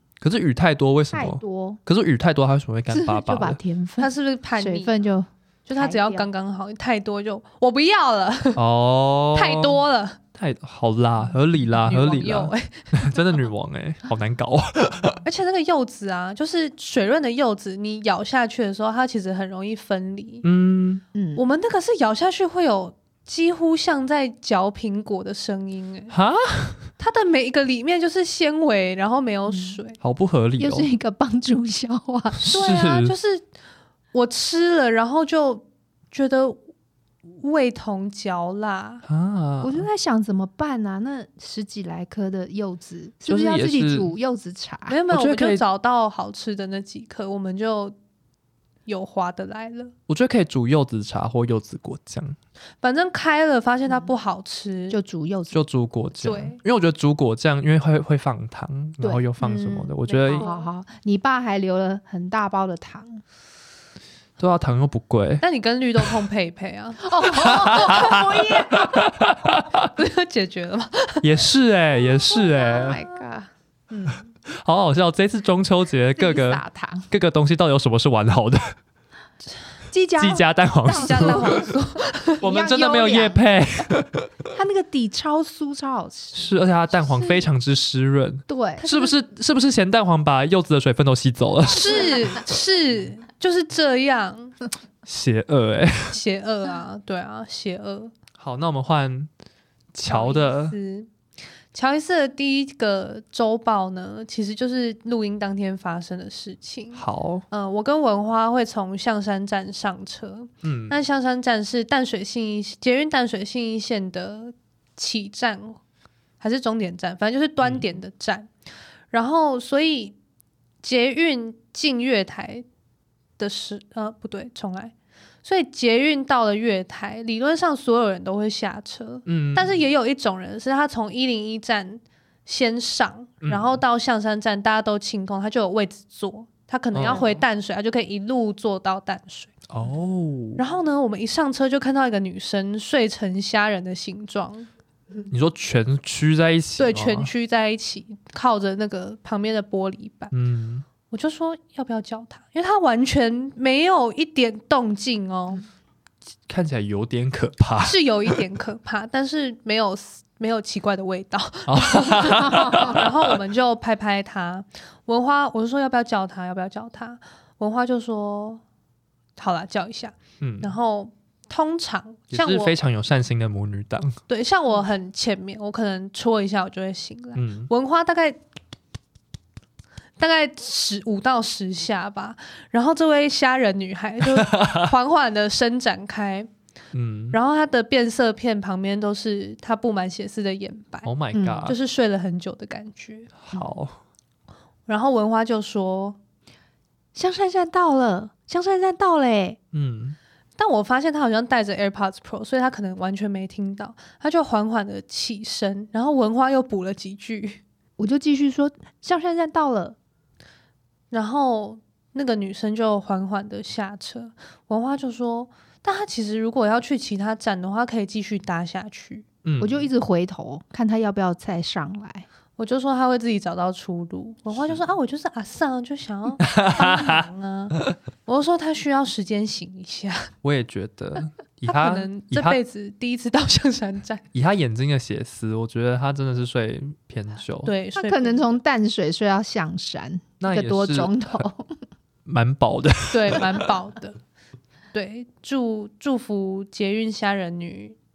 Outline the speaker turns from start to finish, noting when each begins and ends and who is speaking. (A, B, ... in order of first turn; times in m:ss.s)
0:00.2-0:03.6 A
0:01.1-0:01.8 B
0:02.9-0:06.3 B
0:04.0-0:05.0 C
0:05.7-0:08.6 C
0:08.6-0:09.8 A
0:09.3-0:10.2 C
0:10.4-0:15.2 A
0:11.8-0:13.2 C
0:15.2-0:20.4 C
0:20.4-0:21.0 A
0:21.1-0:21.4 B
0:21.4-0:26.1 C
0:26.1-0:26.8 A
0:27.0-0:30.0 C
0:29.5-0:29.8 B
0:30.0-0:30.9 A
0:30.6-0:32.5 B
0:32.3-0:33.1 A
0:32.5-0:33.4 C
0:34.1-0:36.6 C
0:37.3-0:39.0 C
0:39.0-0:39.9 A
0:39.6-0:45.0 B
0:43.2-0:44.1 A
0:44.9-0:48.0 C
0:45.1-0:45.6 A
0:48.8-0:49.9 C
0:50.1-0:52.4 A
0:52.8-0:55.0 C
0:54.9-0:55.6 B
0:55.5-1:00.5 A
0:56.2-0:56.6 C
0:59.0-0:59.3 B
0:59.4-1:00.7 C
1:00.2-1:03.2 B
1:04.4-1:05.4 A
1:05.4-1:08.0 C
1:07.0-1:09.1 B
1:07.3-1:09.9 A
1:09.9-1:11.3 C
1:11.2-1:13.0 A
1:12.3-1:13.5 B
1:12.5-1:13.2 C
1:13.9-1:14.3 C
1:14.5-1:18.6 A
1:16.2-1:17.1 B
1:19.9-1:21.7 B
1:20.2-1:21.6 A
1:20.9-1:22.4 C
1:22.4-1:24.3 A
1:22.4-1:23.4 B
1:24.5-1:27.5 B
1:26.3-1:32.1 A
1:28.5-1:28.9 B
1:28.8-1:29.1 C
1:31.7-1:34.6 C
1:35.0-1:36.2 A
1:36.1-1:38.1 C
1:38.4-1:39.3 A
1:39.9-1:40.8 A
1:40.1-1:41.1 C
1:41.7-1:55.8 C
1:46.9-1:47.4 A
1:50.6-1:51.0 A
1:56.4-1:58.5 C
1:59.1-2:00.2 C
2:00.8-2:02.6 C
2:03.4-2:19.5 C
2:09.2-2:09.8 A
2:13.4-2:13.8 A
2:16.9-2:17.4 A
2:19.7-2:20.6 A
2:20.6-2:24.7 C
2:25.3-2:27.3 A
2:26.8-2:30.3 C
2:30.3-2:30.8 A
2:31.1-2:35.6 C
2:36.5-2:38.4 A
2:37.8-2:48.6 C
2:41.7-2:43.1 A
2:42.5-2:42.9 B
2:49.4-2:52.8 C
2:50.4-2:50.7 A
2:52.3-2:54.2 A
2:54.3-2:58.4 C
2:57.3-2:57.7 A
3:00.2-3:06.5 C
3:04.3-3:04.9 A
3:06.9-3:07.4 A
3:07.3-3:11.1 C
3:11.0-3:11.8 A
3:11.3-3:11.7 B
3:11.6-3:13.3 C
3:13.4-3:14.0 A
3:14.9-3:16.2 C
3:17.1-3:19.6 B
3:19.7-3:20.2 A
3:20.6-3:27.6 C
3:28.0-3:30.0 B
3:31.1-3:39.2 C
3:39.4-3:39.9 A
3:39.6-3:42.2 B
3:42.6-3:50.3 C
3:44.5-3:44.8 A
3:46.5-3:47.0 A
3:50.4-3:52.6 A
3:51.6-3:54.2 C
3:54.3-3:57.7 A
3:57.6-3:58.6 C
3:57.9-4:01.7 B
4:00.4-4:01.4 A
4:02.2-4:03.5 A
4:03.1-4:04.2 C
4:04.9-4:08.0 C